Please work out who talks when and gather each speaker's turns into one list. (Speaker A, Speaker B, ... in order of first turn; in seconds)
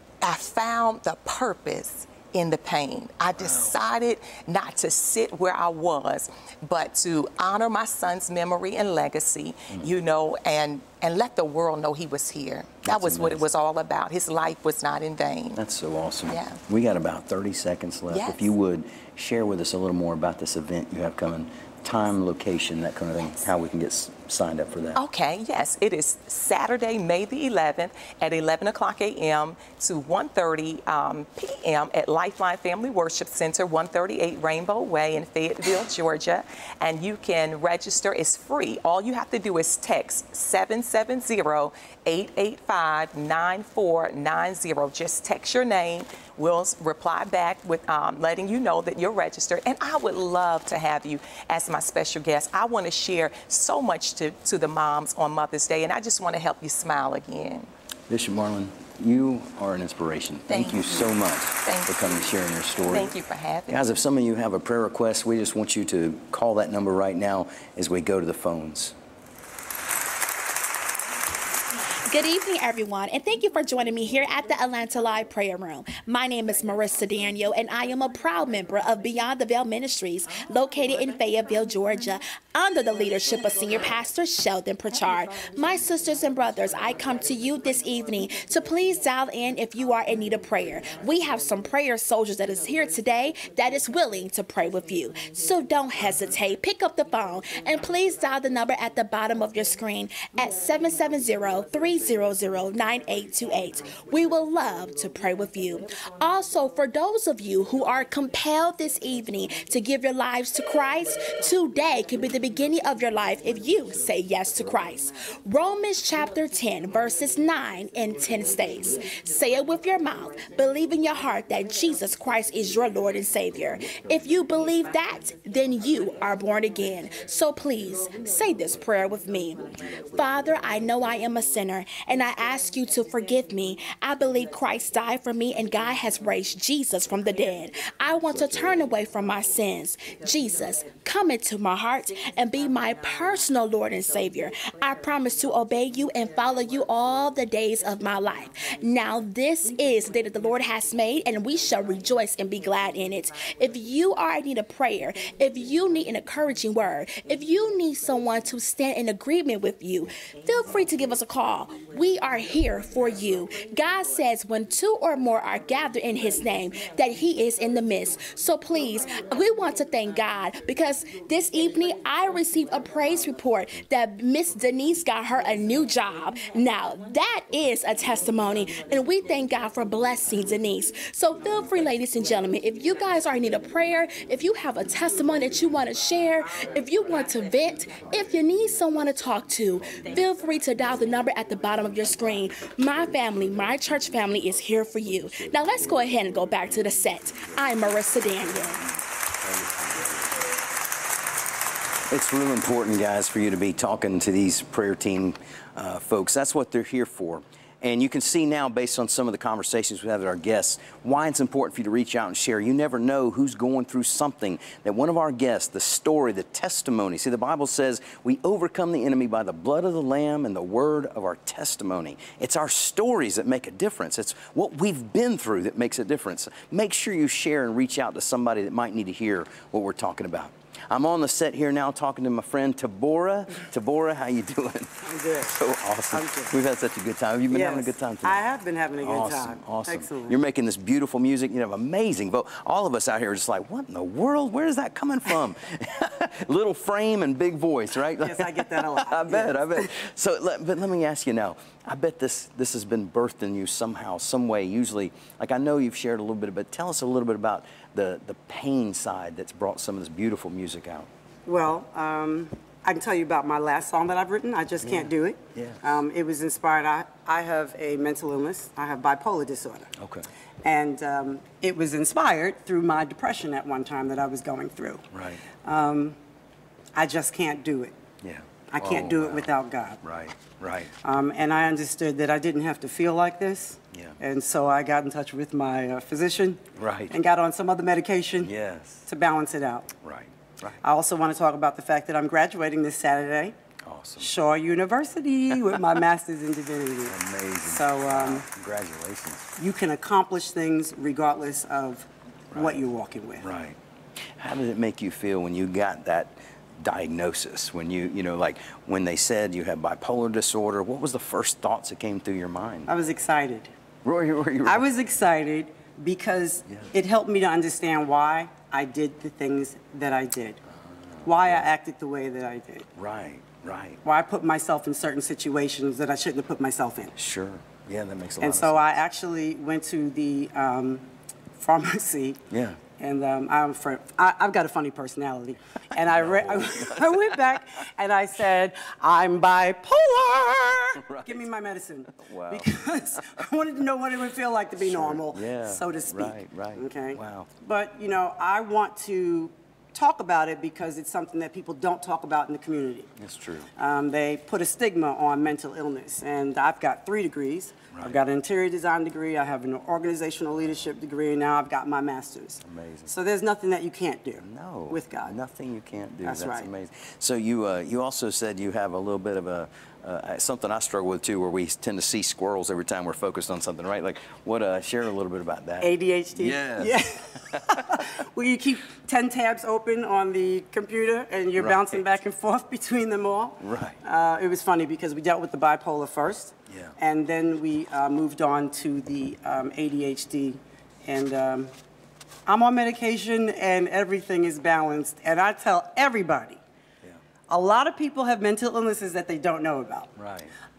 Speaker A: 0.2-15.6, 16.3-16.6, 18.1-18.5, 24.9-57.7, 60.5-62.0, 62.8-63.9
Speaker B: 3.4-3.7, 12.8-13.4, 15.5-25.0, 58.1-63.1, 63.7-68.9, 202.1-238.4, 239.0-261.1, 264.8-265.8, 270.0-270.3, 275.1-275.4, 278.2-279.5, 280.0-280.9, 283.9-284.2, 286.8-287.1, 288.4-289.1, 290.0-290.8, 293.8-294.3, 297.1-299.6, 302.5-302.8, 303.4-303.8, 304.4-312.9, 314.0-314.8, 316.7-316.9, 320.8-321.7, 322.9-324.0, 327.1-328.9, 332.5-332.8, 336.0-337.3, 341.0-341.5, 342.1-343.4, 344.8-347.5, 353.2-353.7, 357.9-358.2, 362.6-363.1, 364.4-378.0, 381.6-382.0, 383.6-384.0, 386.7-386.9, 400.1-400.5
Speaker C: 72.0-198.8
Speaker D: 235.0-235.5, 236.1-236.5, 237.5-240.4, 248.2-249.9, 261.4-269.9, 270.6-275.1, 275.6-276.2, 276.9-277.9, 278.7-280.0, 281.0-288.5, 289.1-289.9, 290.8-293.6, 294.2-298.4, 299.6-303.4, 312.9-313.7, 314.6-320.6, 321.2-322.9, 324.0-327.1, 328.4-332.4, 333.0-353.1, 353.8-365.4, 366.2-366.7, 375.8-391.7, 392.4-396.6, 397.5-400.1